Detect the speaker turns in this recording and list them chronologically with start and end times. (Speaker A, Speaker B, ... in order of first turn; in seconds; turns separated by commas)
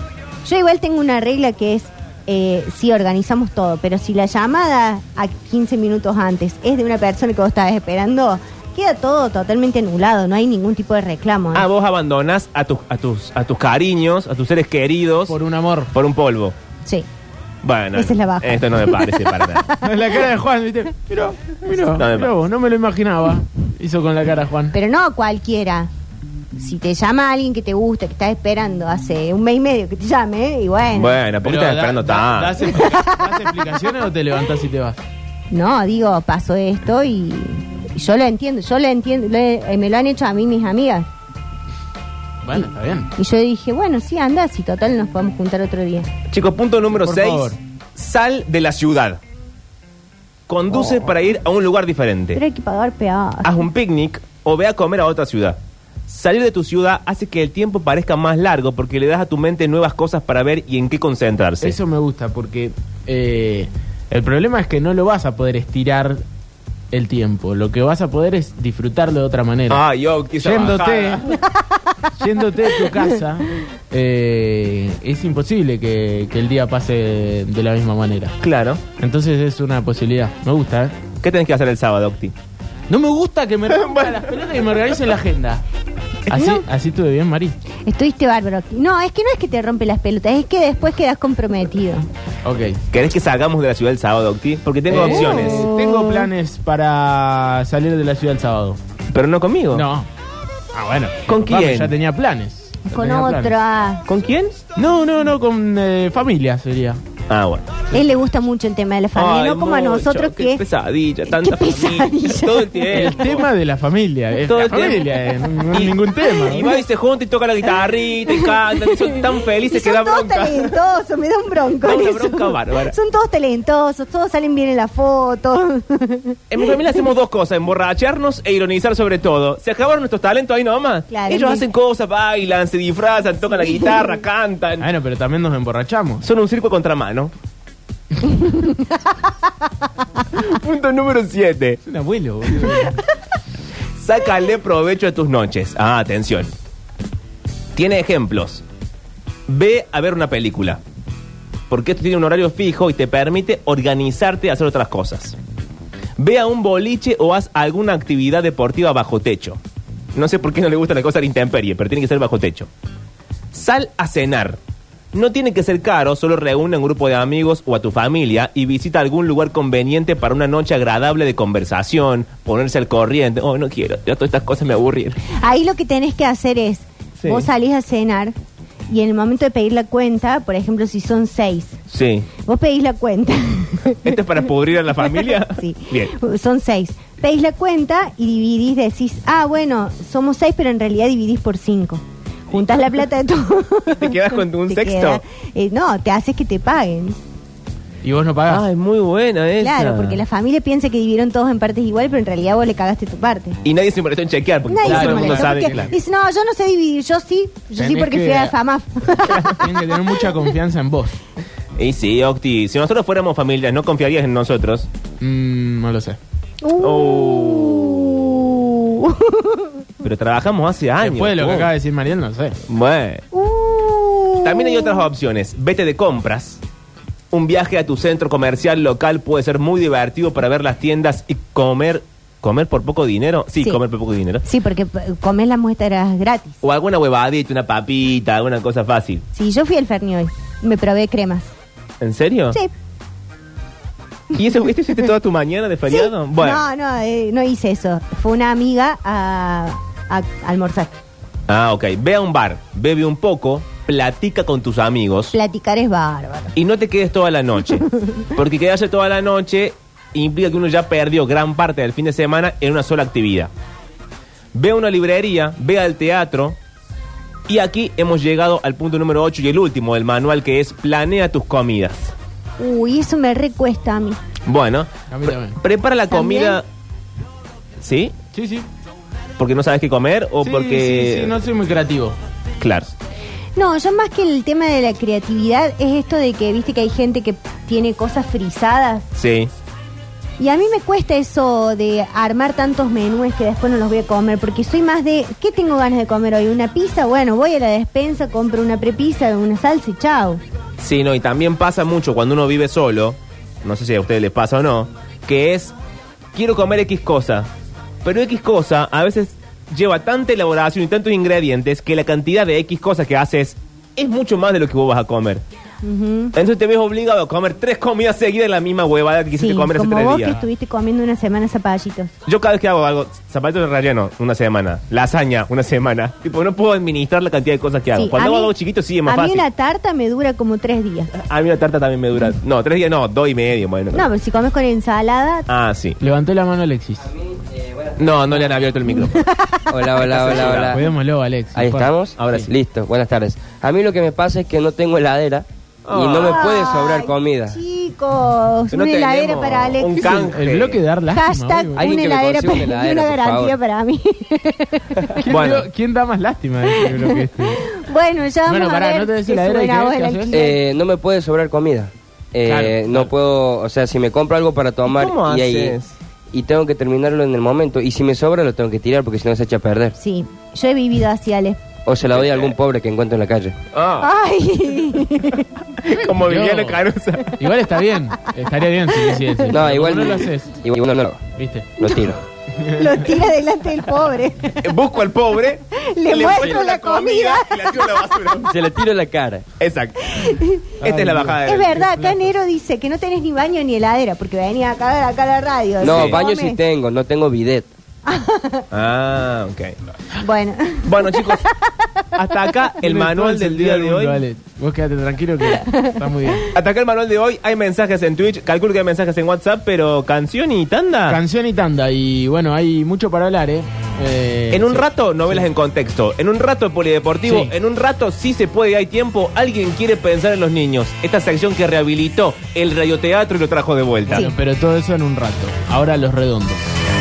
Speaker A: 0.4-11.7, Speaker B: 11.5-15.4, Speaker C: 15.3-15.9, Speaker B: 15.9-16.6, Speaker B: 17.6-19.7, Speaker A: 17.9-19.9, Speaker C: 19.8-24.7, Speaker B: 21.9-22.3, Speaker A: 24.7-25.9, Speaker A: 26.6-31.2, Speaker B: 30.9-32.9, Speaker C: 31.4-35.0, Speaker A: 32.8-33.4, Speaker A: 35.5-41.1, Speaker C: 42.4-43.1, Speaker A: 43.1-46.1, Speaker B: 46.3-49.2, Speaker C: 46.9-47.6, Speaker B: 50.5-52.4, Speaker A: 52.3-53.6, Speaker B: 53.4-61.8, Speaker C: 61.6-66.2, Speaker C: 66.9-69.8, Speaker B: 69.7-71.3, Speaker C: 70.4-71.3, Speaker C: 72.1-78.3, Speaker B: 78.4-78.8, Speaker C: 79.0-81.0, Speaker B: 81.2-82.3, Speaker C: 82.9-85.6, Speaker B: 83.7-84.5, Speaker C: 86.3-87.6, Speaker A: 86.3-86.6, Speaker A: 87.8-92.1, Speaker C: 92.4-92.8, Speaker B: 92.9-95.7, Speaker C: 94.9-98.8, Speaker A: 94.9-96.2, Speaker B: 99.1-99.9, Speaker C: 99.7-100.1, Speaker C: 100.7-103.6, Speaker B: 101.3-101.9, Speaker A: 102.8-104.0, Speaker B: 104.1-104.6, Speaker C: 104.8-107.0, Speaker B: 107.3-107.8, Speaker A: 107.9-110.6, Speaker B: 109.1-113.5, Speaker A: 111.3-112.9, Speaker C: 112.9-116.7, Speaker B: 114.5-120.7, Speaker A: 118.3-126.7, Speaker B: 121.8-122.9, Speaker B: 126.5-134.9, Speaker A: 131.1-131.6, Speaker C: 134.8-136.2, Speaker B: 136.2-137.3, Speaker A: 138.2-138.9, Speaker B: 140.3-141.8, Speaker C: 141.8-143.0, Speaker B: 144.0-146.5, Speaker B: 147.7-148.6, Speaker B: 149.5-150.8, Speaker B: 151.7-155.4, Speaker B: 156.2-159.6, Speaker B: 160.1-162.7, Speaker B: 163.5-164.6, Speaker B: 165.1-175.2, Speaker A: 175.3-178.3, Speaker B: 177.2-177.5, Speaker A: 178.9-181.8, Speaker B: 181.9-182.3, Speaker A: 182.4-184.2, Speaker B: 183.9-186.1, Speaker A: 185.4-197.2, Speaker B: 193.9-195.2, Speaker C: 198.0-198.6, Speaker B: 198.5-200.2, Speaker A: 199.6-203.6, Speaker B: 203.6-205.9, Speaker A: 204.7-210.1, Speaker C: 204.8-205.9, Speaker C: 207.8-208.5, Speaker B: 209.3-209.5, Speaker C: 209.6-211.2, Speaker B: 211.8-214.9, Speaker C: 215.2-216.2, Speaker A: 216.6-219.8, Speaker B: 216.8-218.1, Speaker B: 220.0-221.7, Speaker C: 221.0-222.6, Speaker B: 222.7-223.2, Speaker A: 223.3-225.1, Speaker B: 224.4-226.6, Speaker B: 227.3-234.4, Speaker A: 234.4-236.6, Speaker B: 236.6-239.2, Speaker A: 239.3-241.5, Speaker B: 242.0-242.6, Speaker B: 244.3-246.6, Speaker A: 245.9-250.9, Speaker B: 251.5-255.3, Speaker A: 255.3-256.5, Speaker B: 256.6-263.5, Speaker B: 264.5-266.6, Speaker B: 267.5-272.1, Speaker A: 272.6-274.2, Speaker B: 274.4-276.6, Speaker C: 275.1-275.6, Speaker A: 276.1-276.6, Speaker B: 277.8-278.1, Speaker C: 278.3-278.7, Speaker B: 279.4-281.3, Speaker C: 280.4-282.2, Speaker B: 282.6-282.9, Speaker A: 283.6-289.1, Speaker B: 289.1-289.5, Speaker A: 290.4-300.4, Speaker B: 300.8-305.7, Speaker B: 306.3-307.5, Speaker B: 308.0-315.4, Speaker A: 315.8-316.3, Speaker B: 316.3-320.4, Speaker A: 319.3-322.1, Speaker B: 322.2-329.4, Speaker A: 327.9-328.5, Speaker A: 329.1-331.1, Speaker B: 331.1-334.1, Speaker A: 333.9-335.5, Speaker B: 335.5-336.0, Speaker C: 336.0-337.1, Speaker D: 337.3-338.0, Speaker B: 338.0-339.2, Speaker A: 339.1-339.7, Speaker D: 339.7-340.8, Speaker B: 340.0-340.8, Speaker C: 340.3-342.5, Speaker D: 341.5-347.6, Speaker B: 342.2-342.5, Speaker B: 345.9-346.5, Speaker A: 346.2-350.2, Speaker B: 348.7-350.8, Speaker C: 350.0-352.0, Speaker A: 351.1-355.2, Speaker D: 351.8-353.6, Speaker C: 355.2-357.7, Speaker B: 355.3-355.7, Speaker A: 356.9-360.5, Speaker C: 358.5-360.4, Speaker D: 360.3-365.8, Speaker C: 362.4-363.1, Speaker B: 364.8-365.9, Speaker D: 366.3-369.9, Speaker A: 369.9-371.6, Speaker D: 371.9-373.6, Speaker B: 372.0-372.5, Speaker B: 373.7-374.1, Speaker A: 374.0-375.4, Speaker B: 375.8-377.4, Speaker C: 376.1-376.8, Speaker C: 377.4-380.5, Speaker D: 379.5-381.3, Speaker C: 381.4-381.7, Speaker D: 381.8-382.2, Speaker C: 382.6-383.0, Speaker A: 382.6-384.6, Speaker B: 384.6-388.5, Speaker A: 385.7-388.4, Speaker D: 388.4-389.5, Speaker B: 389.6-391.8, Speaker A: 390.0-390.8, Speaker C: 390.8-392.2, Speaker A: 391.4-396.6, Speaker B: 395.8-396.2, Speaker D: 395.8-397.7, Speaker A: 398.0-398.6, Speaker B: 398.7-399.8, Speaker A: 400.2-402.2, Speaker B: 400.8-401.5, Speaker B: 402.1-404.2, Speaker C: 402.8-406.4, Speaker A: 405.7-406.0, Speaker B: 406.5-411.2, Speaker C: 411.1-415.4, Speaker B: 414.5-424.3, Speaker C: 417.2-417.5, Speaker C: 424.1-426.8